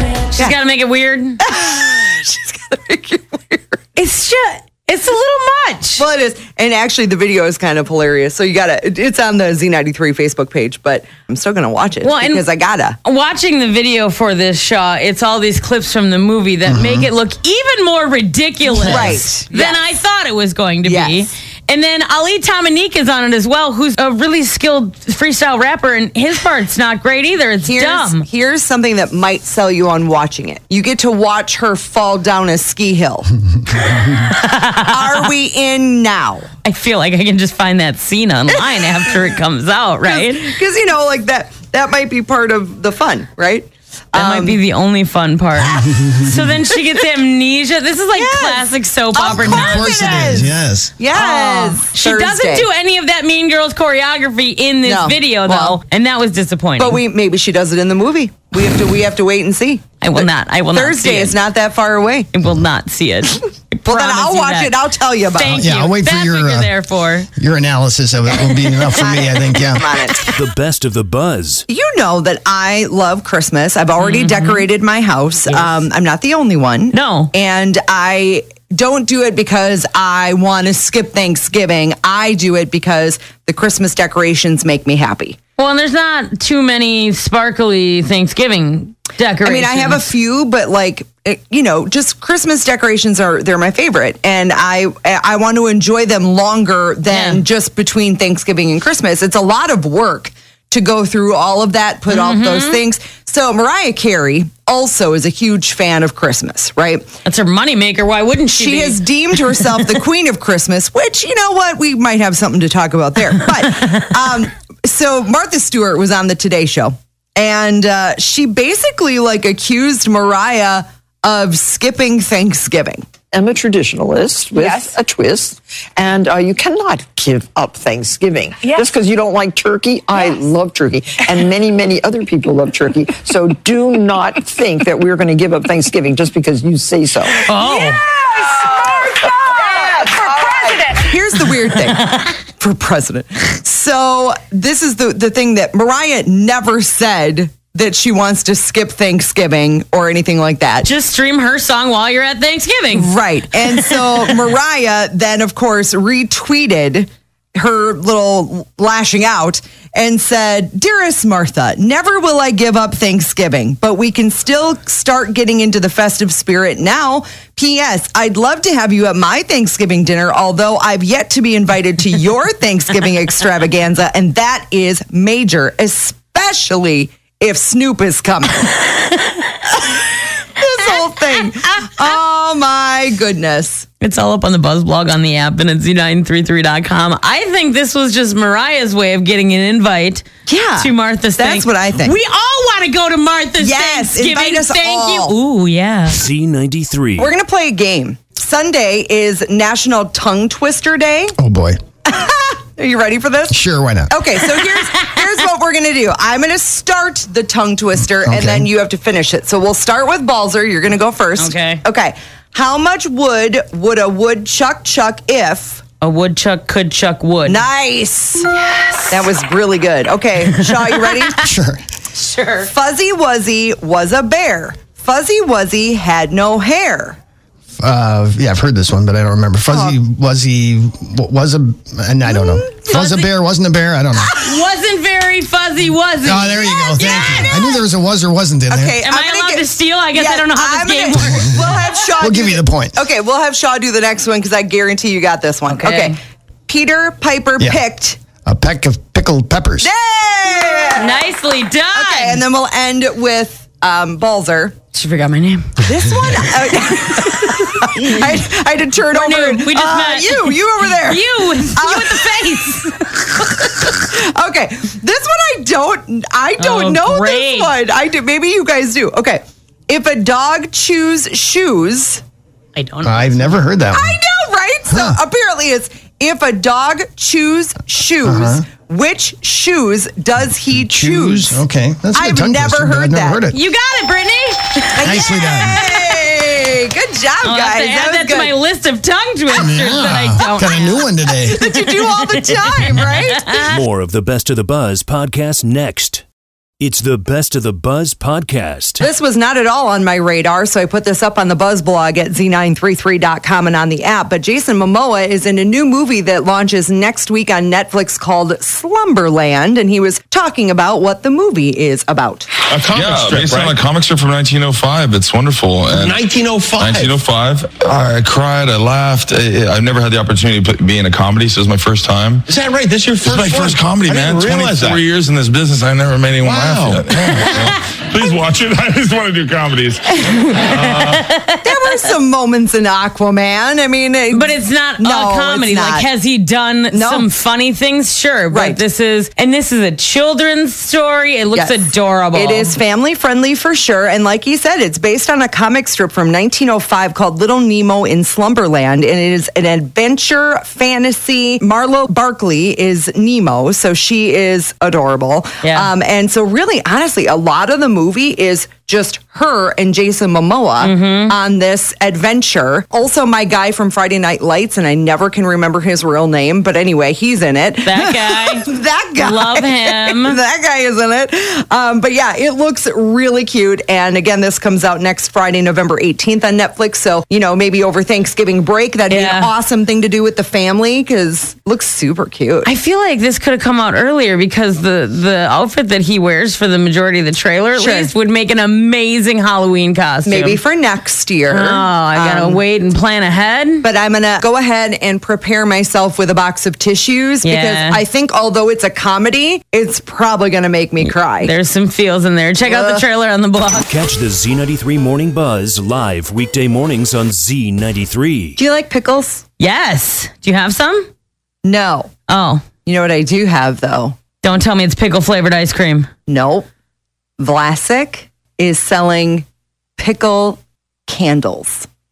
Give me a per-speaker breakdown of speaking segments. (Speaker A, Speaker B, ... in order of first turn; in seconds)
Speaker A: 0.4-1.4, 4.0-6.0, 12.0-12.4, 13.0-28.2, 34.3-35.2, 36.6-40.5, 44.1-50.4, 51.1-57.0, 60.0-61.4, 62.3-64.7, 65.3-67.3, 74.0-74.7, 75.5-75.7, 76.9-77.3, 85.6-90.1, 97.1-97.4, 102.1-102.8, 107.2-109.0, 137.4-138.0, 150.8-153.1, 184.0-196.2, 211.4-211.8, 216.0-217.6, 222.2-222.7, 232.9-233.2, 234.3-237.8, 239.0-241.5, 245.7-246.2, 251.0-252.4, 254.9-255.8, 257.8-258.2, 259.1-263.1, 266.6-267.7, 272.7-273.6, 283.5-285.7, 287.4-291.1, 292.5-293.7, 331.1-331.7, 334.3-342.7, 355.6-355.9, 360.8-361.3, 367.8-368.6, 369.2-370.4, 379.1-379.5, 382.6-390.6, 391.5-393.9, 397.4-398.0, 401.0-403.9, 409.6-411.1, 412.3-412.6, 414.4-416.1
Speaker B: 1.4-3.8, 6.0-13.0, 18.8-19.8, 20.8-21.2, 27.6-33.3, 34.3-36.5, 38.5-39.1, 40.0-44.6, 48.1-52.7, 54.8-55.8, 56.8-62.3, 63.9-65.7, 68.9-70.3, 71.7-85.4, 89.4-107.1, 108.5-123.0, 140.9-150.9, 152.9-178.8, 179.7-180.0, 180.6-183.8, 190.5-192.2, 193.6-195.3, 197.2-201.3, 202.1-203.6, 204.1-215.8, 217.4-218.5, 219.1-221.5, 222.6-227.2, 229.7-230.0, 232.3-233.1, 236.9-237.6, 238.7-246.2, 246.7-248.2, 249.8-251.2, 251.9-254.7, 255.8-272.2, 273.9-281.6, 282.1-283.4, 285.0-288.5, 291.4-293.6, 299.0-312.5, 331.6-336.1, 336.9-337.3, 338.5-338.8, 341.5-382.7, 387.7-388.1, 390.2-392.6, 393.8-401.5, 402.6-403.0, 408.6-409.4, 411.6-412.1, 412.8-414.2, 416.3-416.7, 417.4-419.4, 420.0-421.9
Speaker C: 16.7-17.1, 18.8-19.2, 45.7-46.3, 49.3-50.9, 65.5-66.7, 67.3-70.0, 201.4-201.8, 203.5-204.1, 208.2-208.7, 221.4-221.8, 227.8-234.4, 236.2-239.0, 241.5-243.0, 248.4-249.9, 273.0-274.2, 274.9-275.2, 278.2-278.6, 280.7-283.6, 285.0-285.9, 289.5-291.7
Speaker D: 70.3-71.6, 196.1-197.3, 293.7-296.2, 296.8-299.0, 403.9-408.6
Speaker E: 123.3-141.0
Speaker F: 312.7-313.7, 315.9-317.1, 322.5-325.0, 326.4-327.4
Speaker G: 312.7-316.2, 316.8-322.5, 323.2-331.3